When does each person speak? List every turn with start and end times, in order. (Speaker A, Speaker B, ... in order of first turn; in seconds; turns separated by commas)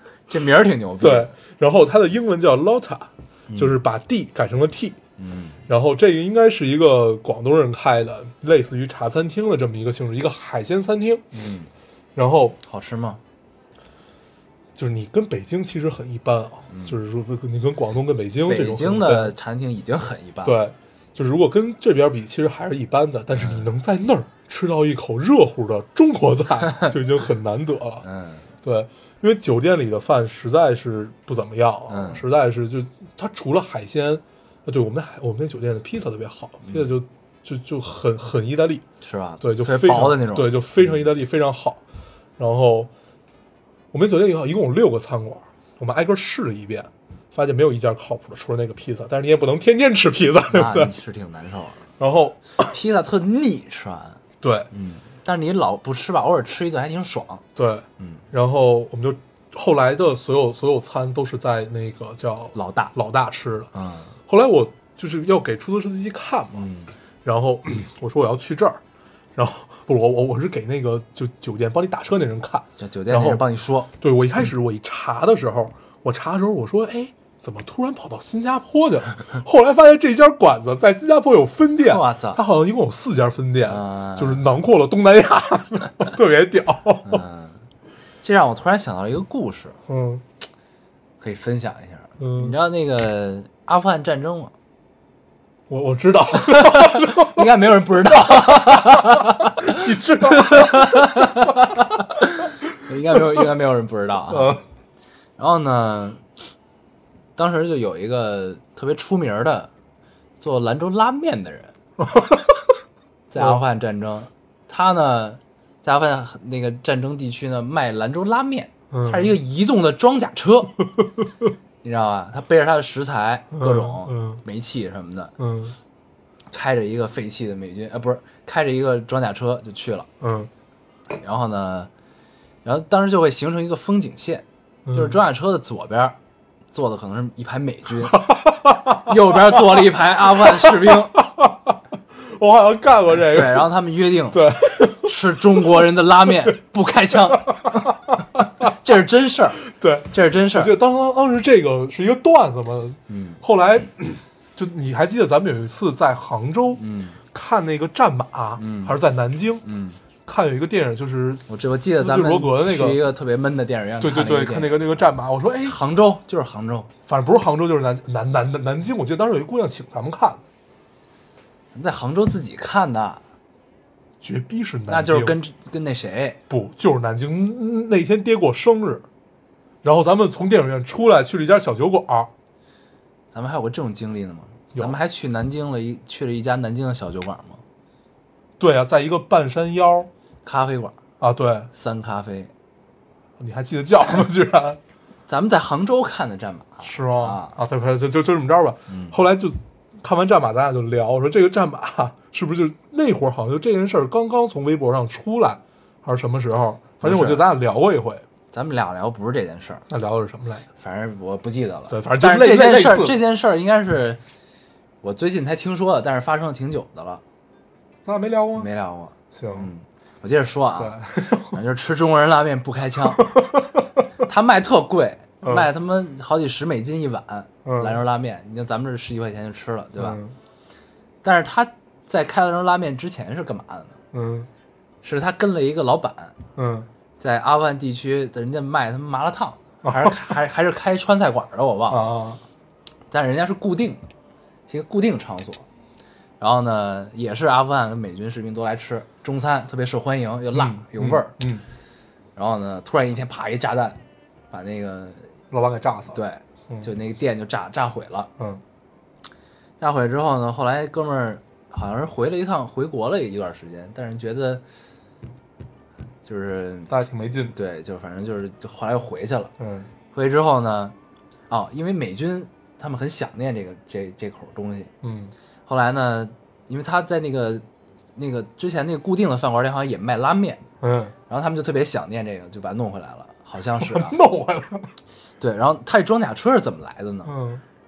Speaker A: 0.3-1.3, Speaker B: 1.0-5.0, Speaker A: 3.5-3.7, Speaker A: 5.2-5.6, Speaker B: 5.7-11.3, Speaker A: 11.3-11.7, Speaker B: 12.2-12.6, Speaker A: 12.6-13.2, Speaker B: 14.8-19.4, Speaker A: 16.7-17.0, Speaker A: 18.4-20.6, Speaker B: 20.4-28.1, Speaker A: 23.4-23.7, Speaker A: 28.0-28.5, Speaker B: 28.6-38.8, Speaker A: 31.9-32.2, Speaker A: 36.6-36.9, Speaker A: 39.0-40.6, Speaker B: 39.4-41.8, Speaker B: 42.4-42.9, Speaker B: 43.9-50.9, Speaker A: 50.5-51.9, Speaker B: 52.0-52.8, Speaker A: 52.6-57.4, Speaker B: 54.4-54.7, Speaker B: 57.6-63.7, Speaker A: 62.5-62.9, Speaker A: 63.7-64.1, Speaker B: 64.3-66.7, Speaker A: 66.5-66.9, Speaker B: 67.2-68.8, Speaker B: 69.4-73.4, Speaker A: 72.8-73.9, Speaker B: 74.0-87.2, Speaker A: 81.8-82.4, Speaker A: 83.7-84.4, Speaker A: 87.0-87.6, Speaker A: 88.2-89.8, Speaker B: 89.9-90.2, Speaker A: 91.2-94.5, Speaker B: 92.2-92.6, Speaker B: 95.7-97.5, Speaker A: 96.3-104.6, Speaker B: 98.2-101.6, Speaker B: 103.2-103.4, Speaker B: 104.3-104.6, Speaker A: 105.4-106.2, Speaker A: 107.4-109.7, Speaker A: 110.4-111.7, Speaker B: 112.0-112.7, Speaker A: 113.3-120.8, Speaker B: 113.4-113.6, Speaker B: 118.9-119.4, Speaker A: 121.8-125.3, Speaker B: 123.5-124.4, Speaker B: 125.4-125.8, Speaker A: 126.5-130.1, Speaker B: 130.2-130.5, Speaker A: 131.2-131.9, Speaker A: 132.6-136.2, Speaker B: 134.9-135.2, Speaker A: 136.7-138.3, Speaker B: 138.1-139.8, Speaker A: 139.0-141.2, Speaker B: 140.6-143.7, Speaker A: 143.3-150.8, Speaker B: 144.3-145.6, Speaker B: 147.3-148.2, Speaker B: 149.7-156.8, Speaker A: 153.1-153.4, Speaker A: 156.8-157.2, Speaker B: 157.3-159.6, Speaker A: 158.6-158.9, Speaker A: 159.6-160.0, Speaker B: 160.3-163.0, Speaker A: 161.5-164.8, Speaker B: 164.0-165.8, Speaker A: 165.6-166.9, Speaker B: 167.1-170.4, Speaker A: 171.7-173.2, Speaker B: 174.2-175.4, Speaker A: 174.9-176.4, Speaker B: 176.5-179.1, Speaker B: 179.8-182.3, Speaker A: 183.3-187.6, Speaker B: 188.6-190.1, Speaker A: 190.4-191.0, Speaker B: 191.2-191.7, Speaker A: 191.7-192.5, Speaker B: 193.4-194.8, Speaker A: 195.3-197.6, Speaker B: 196.8-208.2, Speaker A: 198.9-199.2, Speaker A: 207.0-207.4, Speaker A: 208.5-209.9, Speaker B: 209.9-210.7, Speaker A: 210.8-214.2, Speaker B: 211.9-213.2, Speaker A: 215.0-217.2, Speaker B: 218.1-218.7, Speaker A: 218.6-221.0, Speaker B: 219.3-219.7, Speaker B: 220.8-221.6, Speaker A: 221.5-223.3, Speaker B: 223.2-223.9, Speaker A: 224.2-230.2, Speaker B: 225.4-225.7, Speaker B: 227.7-228.0, Speaker B: 230.0-230.3, Speaker A: 231.2-234.0, Speaker B: 234.1-234.5, Speaker A: 235.0-236.4, Speaker B: 236.6-236.9, Speaker A: 237.2-242.1, Speaker B: 239.8-240.3, Speaker B: 241.9-242.4, Speaker A: 243.1-244.1, Speaker A: 244.7-245.7, Speaker A: 246.4-251.4, Speaker B: 250.5-251.6, Speaker A: 252.4-254.0, Speaker A: 254.5-255.3, Speaker B: 255.5-256.2, Speaker A: 256.1-258.3, Speaker A: 259.8-264.6, Speaker A: 266.2-266.9, Speaker B: 266.9-267.6, Speaker A: 267.5-269.5, Speaker B: 269.6-269.9, Speaker A: 270.1-270.9, Speaker A: 271.5-274.9, Speaker B: 275.0-275.3, Speaker A: 275.7-277.6, Speaker A: 278.2-280.6, Speaker B: 280.8-281.1, Speaker A: 281.3-284.2, Speaker B: 283.8-284.9, Speaker A: 285.4-287.3, Speaker B: 287.3-287.6